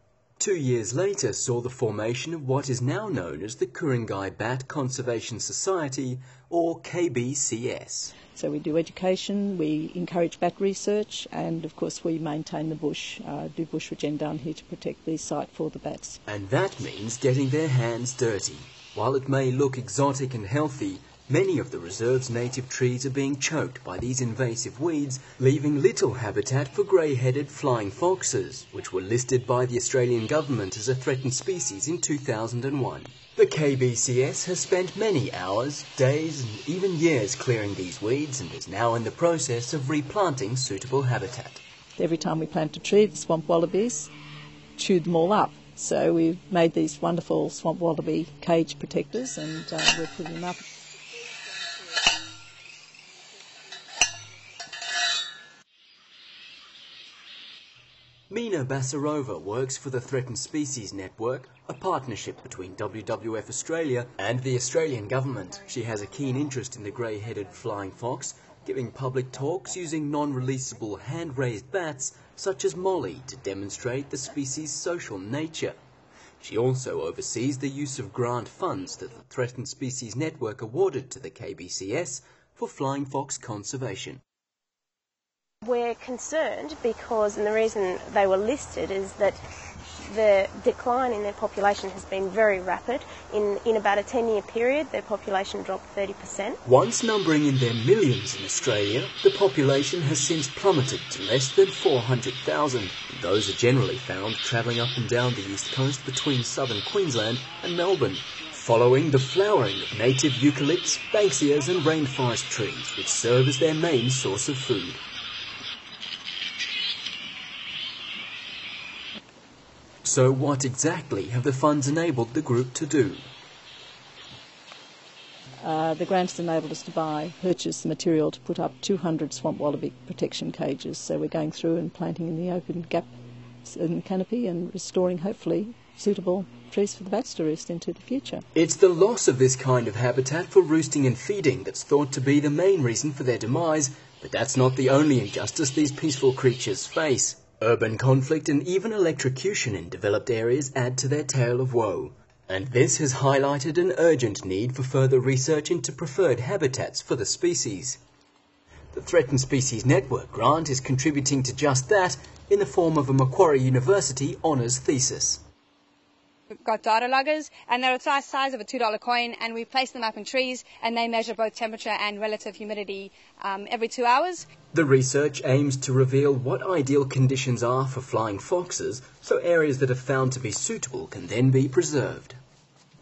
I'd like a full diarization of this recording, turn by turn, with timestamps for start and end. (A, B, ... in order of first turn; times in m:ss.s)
0:00.4-0:08.2 A
0:08.3-0:16.2 B
0:16.3-0:41.6 A
0:42.0-0:44.1 B
0:44.8-0:50.6 B
0:58.3-1:15.8 A
1:16.4-1:24.2 A
1:25.6-1:29.4 C
1:30.0-1:36.6 C
1:36.6-1:55.0 A
2:00.0-2:03.3 A
2:05.6-2:18.4 B
2:18.6-2:38.0 A
2:38.9-2:45.4 A
2:46.6-2:54.5 D
2:54.7-3:02.4 A